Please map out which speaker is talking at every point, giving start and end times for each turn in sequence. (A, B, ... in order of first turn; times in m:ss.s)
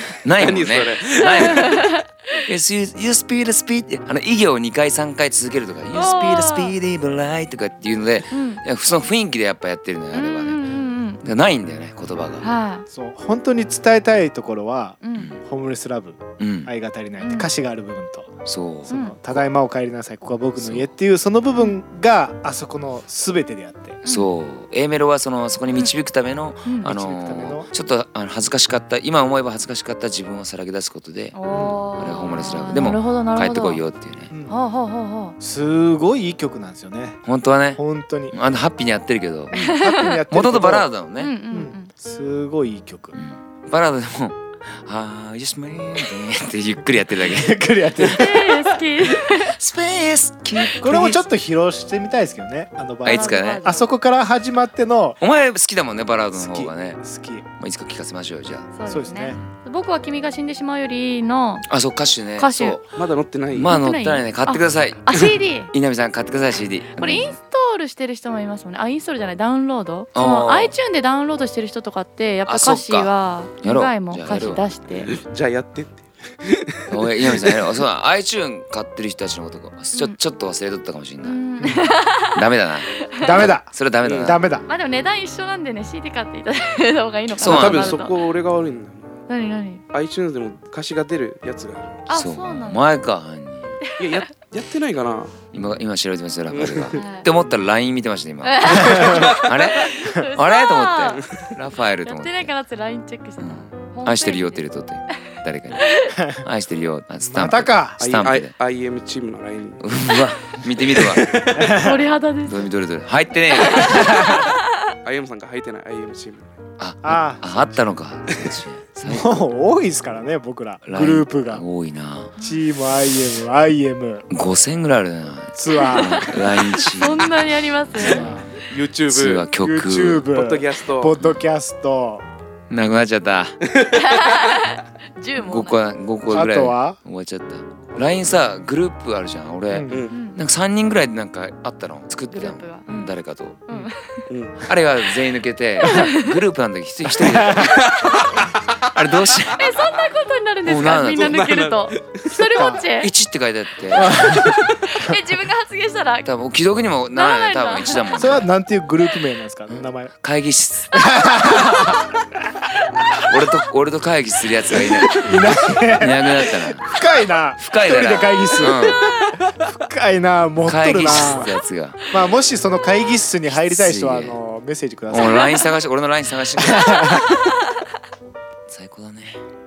0:00.2-0:01.8 A
0:00.4-0:01.8 B
0:01.2-0:02.4 C
0:02.4-0:10.6 A
0:05.9-0:06.7 C
0:08.3-0:08.6 C
0:10.1-0:11.2 C
0:11.2-0:12.5 A
0:12.4-0:12.8 C
0:12.9-0:18.4 D
0:15.0-0:15.3 C
0:15.1-0:15.4 A
0:16.4-0:16.7 A
0:17.2-0:17.5 C
0:18.4-0:19.0 A
0:18.9-0:24.0 D
0:18.9-0:19.1 C
0:20.6-0:20.9 A
0:24.0-0:31.4 A
0:26.8-0:27.7 D
0:31.3-0:33.8 C
0:31.5-0:31.8 D
0:32.0-0:34.3 A
0:34.3-0:34.6 D
0:34.5-0:35.4 C
0:35.4-0:37.2 D
0:37.2-0:39.6 A
0:37.8-0:38.4 D
0:39.5-0:40.9 D
0:39.6-0:40.1 C
0:40.3-0:41.3 A
0:41.2-0:41.9 C
0:41.5-0:43.2 D
0:43.1-0:47.6 A
0:47.3-0:48.6 D
0:48.0-0:49.6 C
0:49.1-0:51.2 A
0:50.8-0:55.2 D
0:53.0-0:53.6 A
0:53.0-0:53.9 C
0:55.2-0:57.0 A
0:56.3-0:57.4 D
0:57.6-0:58.7 A
0:58.7-1:01.7 C
0:58.9-0:59.4 D
1:01.7-1:02.9 A
1:02.4-1:02.8 C
1:03.0-1:03.8 B
1:03.5-1:07.4 A
1:03.6-1:05.7 C
1:07.0-1:15.1 C
1:10.1-1:10.7 A
1:12.5-1:14.6 A
1:15.0-1:17.8 B
1:16.9-1:24.4 A
1:21.2-1:22.4 C
1:23.2-1:24.6 D
1:24.0-1:24.4 B
1:24.7-1:28.2 C
1:27.4-1:28.0 A
1:27.4-1:29.2 B
1:29.3-1:29.8 C
1:29.9-1:32.0 B
1:32.1-1:32.8 C
1:32.1-1:33.8 A
1:33.8-1:34.3 C
1:34.0-1:35.4 B
1:35.5-1:42.5 A
1:36.5-1:37.0 B
1:36.9-1:37.3 C
1:38.4-1:41.3 C
1:39.1-1:39.4 B
1:42.0-1:44.6 C
1:43.4-1:48.5 A
1:45.8-1:46.2 C
1:47.2-1:48.0 D
1:48.0-1:49.9 B
1:49.8-1:51.5 A
1:50.8-1:51.8 B
1:51.5-1:52.0 D
1:51.8-1:52.7 C
1:52.4-1:54.4 A
1:53.5-1:54.6 C
1:53.9-1:54.5 D
1:55.0-1:56.6 B
1:56.8-1:59.4 A
1:57.0-1:57.6 D
1:59.0-2:01.6 D
2:00.9-2:02.3 A
2:02.4-2:02.6 C
2:02.4-2:04.3 D
2:04.3-2:08.4 A
2:05.6-2:06.4 D
2:05.7-2:08.4 C
2:08.0-2:08.5 D
2:08.6-2:09.5 B
2:09.1-2:10.3 A
2:09.6-2:12.3 D
2:10.3-2:11.1 B
2:11.2-2:11.4 A
2:12.7-2:13.6 A
2:13.6-2:14.5 B
2:13.9-2:15.8 C
2:15.4-2:23.6 A
2:16.3-2:17.0 D
2:19.7-2:20.0 D
2:19.9-2:20.1 B
2:20.1-2:20.4 C
2:22.3-2:23.1 C
2:23.7-2:24.3 C
2:24.3-2:24.7 B
2:24.6-2:28.4 A
2:25.8-2:26.4 C
2:27.2-2:27.8 D
2:27.5-2:28.5 B
2:28.9-2:30.0 A
2:29.6-2:33.1 C
2:30.6-2:31.5 A
2:31.1-2:32.4 B
2:32.5-2:32.8 D
2:33.0-2:34.4 A
2:33.9-2:34.6 D
2:34.0-2:36.3 C
2:36.2-2:38.5 A
2:37.1-2:38.1 C
2:38.1-2:40.1 D
2:40.2-2:41.2 A
2:40.9-2:42.1 D
2:43.2-2:46.9 A
2:45.1-2:49.0 D
2:47.6-2:49.1 A
2:49.0-2:49.4 C
2:49.6-2:51.5 D
2:50.6-2:52.0 A
2:52.1-2:55.6 D
2:53.5-2:54.4 A
2:55.1-2:57.3 A
2:55.3-2:55.7 C
2:56.6-2:57.3 D
2:58.7-2:59.4 A